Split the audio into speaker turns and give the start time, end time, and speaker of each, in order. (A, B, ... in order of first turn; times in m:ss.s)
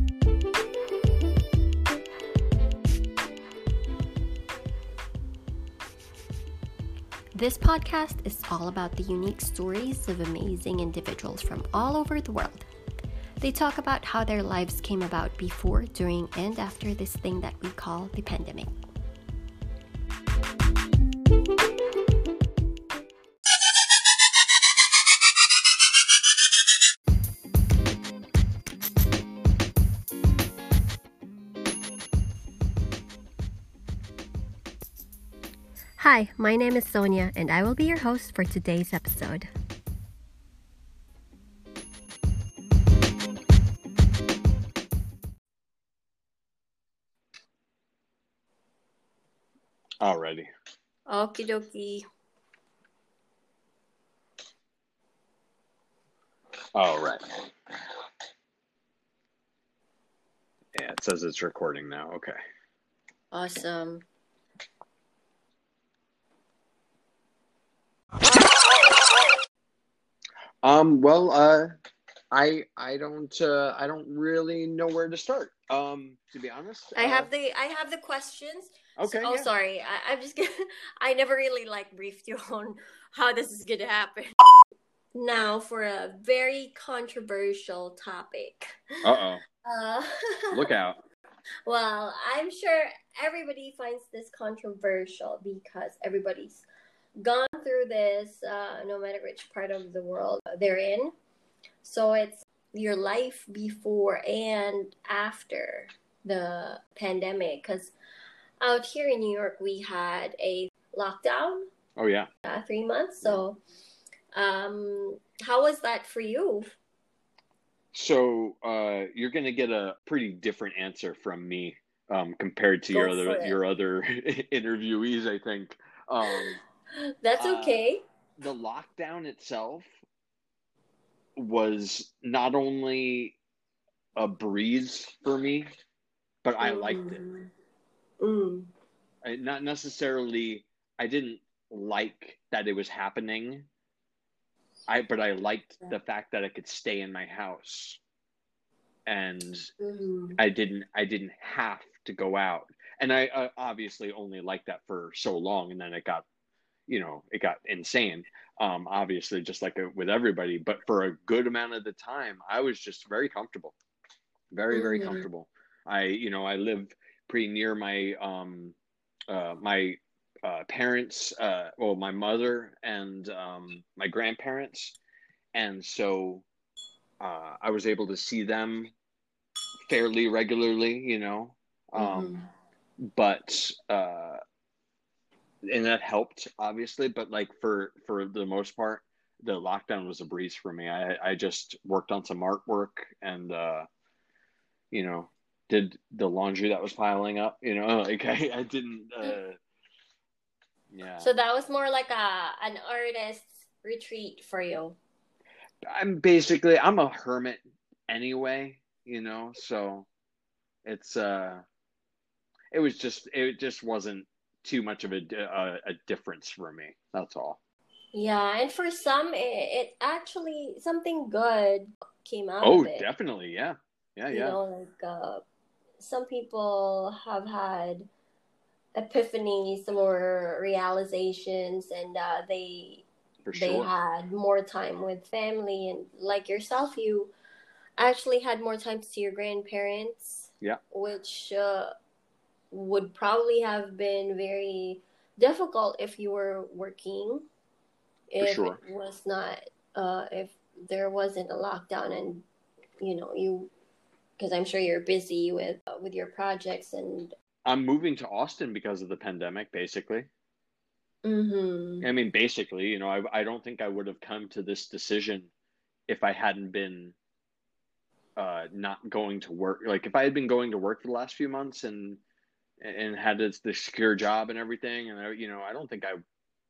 0:07.3-0:12.7 A
0:13.4-0:18.7 A
0:36.0-0:39.5 A
0:50.0-0:50.5 B
0:51.1-0:52.0 A
0:56.8-0:57.2 B
1:00.8-1:02.4 B
1:03.3-1:04.0 A
1:10.6-1:11.7 B
1:12.3-1:17.3 B
1:17.0-1:24.3 A
1:19.0-1:19.5 B
1:25.2-1:28.9 A
1:29.0-1:29.4 B
1:29.6-1:30.7 A
1:30.5-1:31.0 B
1:31.7-1:36.6 A
1:37.2-1:41.1 A
1:41.8-1:47.9 A
1:48.6-1:51.7 A
1:52.0-1:52.3 B
1:52.4-1:53.6 A
1:54.3-1:56.7 A
1:57.9-2:06.6 B
2:02.9-2:03.6 A
2:06.2-2:08.0 A
2:07.4-2:07.8 B
2:08.4-2:09.9 B
2:11.4-2:13.4 B
2:14.2-2:15.7 B
2:16.4-2:17.2 B
2:16.6-2:17.5 A
2:18.2-2:18.7 A
2:19.2-2:23.7 B
2:24.9-2:28.0 B
2:29.1-2:29.7 B
2:29.8-2:30.4 A
2:30.4-2:36.2 B
2:36.9-2:43.8 B
2:44.5-2:48.8 B
2:44.7-2:45.3 A
2:49.3-2:55.0 B
2:55.5-2:56.4 B
2:57.2-2:58.9 B
2:59.9-3:02.3 B
3:02.0-3:02.5 A
3:03.1-3:04.4 B
3:05.7-3:13.9 B
3:14.9-3:19.6 B
3:20.9-3:21.3 B
3:21.2-3:25.0 A
3:25.9-3:30.1 B
3:30.8-3:31.6 B
3:32.7-3:37.6 B
3:38.1-3:43.1 A
3:42.6-3:44.6 B
3:44.3-3:45.4 A
3:46.0-3:48.1 A
3:49.0-3:57.3 A
3:53.4-3:54.0 B
3:58.0-4:01.9 A
4:02.7-4:07.5 A
4:08.3-4:12.4 A
4:08.4-4:08.8 B
4:13.0-4:13.7 A
4:14.4-4:17.3 A
4:17.6-4:20.3 B
4:21.2-4:22.1 A
4:22.0-4:25.5 B
4:26.1-4:27.2 B
4:28.4-4:32.2 B
4:32.8-4:36.2 B